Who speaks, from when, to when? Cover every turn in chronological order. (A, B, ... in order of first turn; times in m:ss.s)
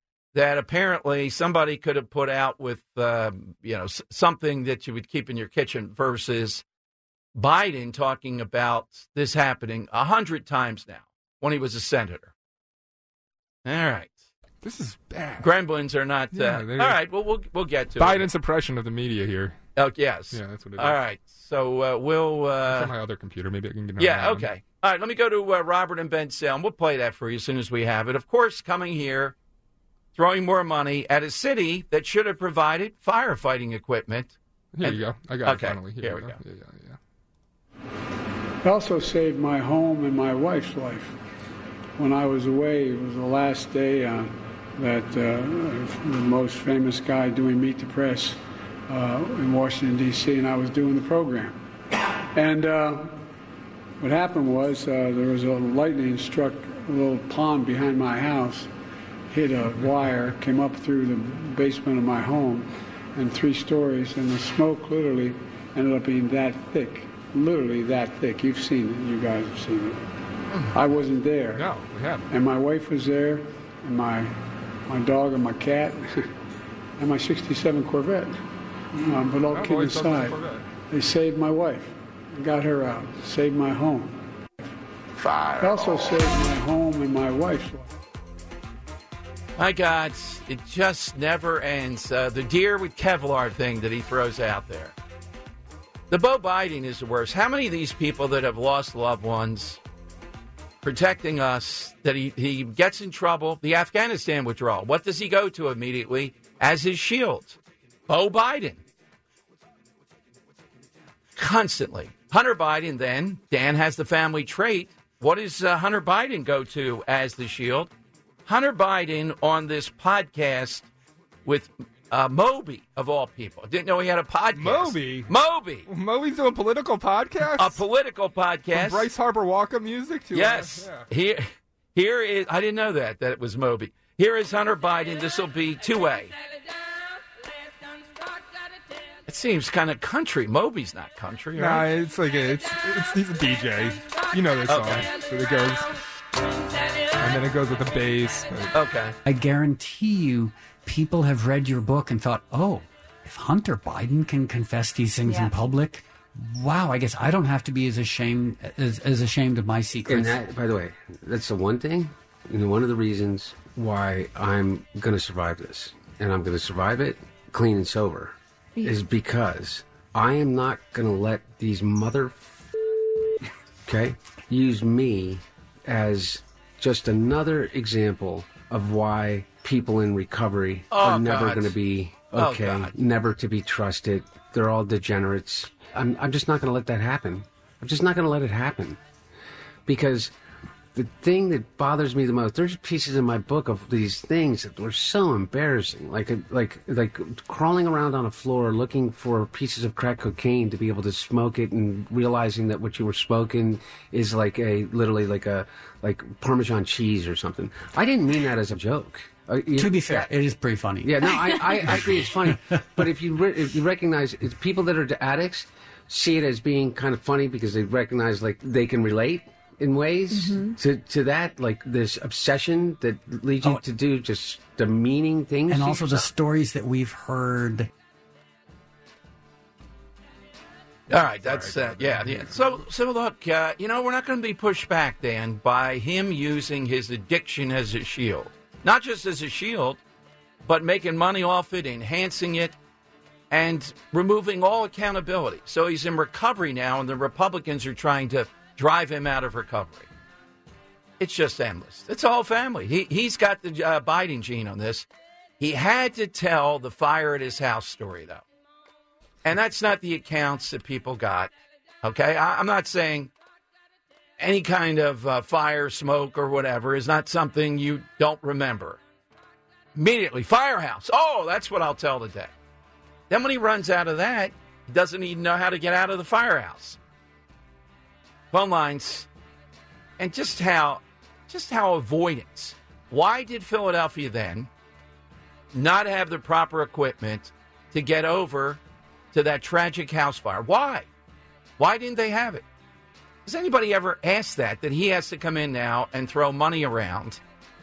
0:00.3-0:06.6 A
0:07.3-0:12.3 A
0:13.6-0:14.2 A
0:14.6-0:15.5 B
0:15.4-0:18.3 A
0:16.3-0:17.0 B
0:18.0-0:19.6 B
0:19.8-0:22.9 A
0:20.3-0:21.0 B
0:22.6-0:24.5 B
0:24.0-0:29.4 A
0:30.1-0:36.4 A
0:34.7-0:37.0 B
0:38.6-0:41.1 C
0:42.0-0:51.6 C
0:52.3-0:53.2 C
0:54.0-0:58.7 C
0:59.3-1:10.0 C
1:10.7-1:11.6 C
1:11.5-1:12.3 B
1:12.3-1:16.3 C
1:17.0-1:18.4 C
1:18.9-1:24.2 C
1:19.5-1:20.6 B
1:25.2-1:26.0 A
1:25.6-1:27.9 C
1:29.6-1:34.9 A
1:36.1-1:39.8 A
1:40.8-1:48.8 A
1:51.4-1:57.9 A
1:58.4-2:00.9 A
2:01.4-2:05.9 A
2:04.5-2:05.3 B
2:05.9-2:07.8 B
2:07.6-2:09.1 A
2:08.7-2:11.1 B
2:10.3-2:16.3 A
2:19.3-2:21.9 A
2:21.6-2:26.0 B
2:24.7-2:25.1 A
2:27.2-2:28.7 B
2:28.7-2:29.2 A
2:29.2-2:40.4 D
2:40.0-2:52.5 E
2:53.8-3:09.0 E
3:00.9-3:01.7 A
3:02.3-3:02.9 A
3:09.8-3:10.3 E
3:10.9-3:30.3 E
3:29.8-3:32.6 D
3:31.0-3:46.3 E
3:45.7-3:47.9 D
3:51.1-4:00.0 A
3:51.4-3:52.8 B
4:00.6-4:02.8 A
4:03.5-4:10.1 A
4:11.2-4:15.1 A
4:15.6-4:18.4 A
4:19.4-4:21.5 A
4:22.0-4:23.3 A
4:24.4-4:29.0 A
4:29.9-4:32.5 A
4:33.3-4:37.0 A
4:38.5-4:39.3 A
4:40.2-4:44.7 A
4:45.7-4:48.8 A
4:49.3-4:51.1 A
4:51.8-4:52.6 A
4:53.4-4:57.4 A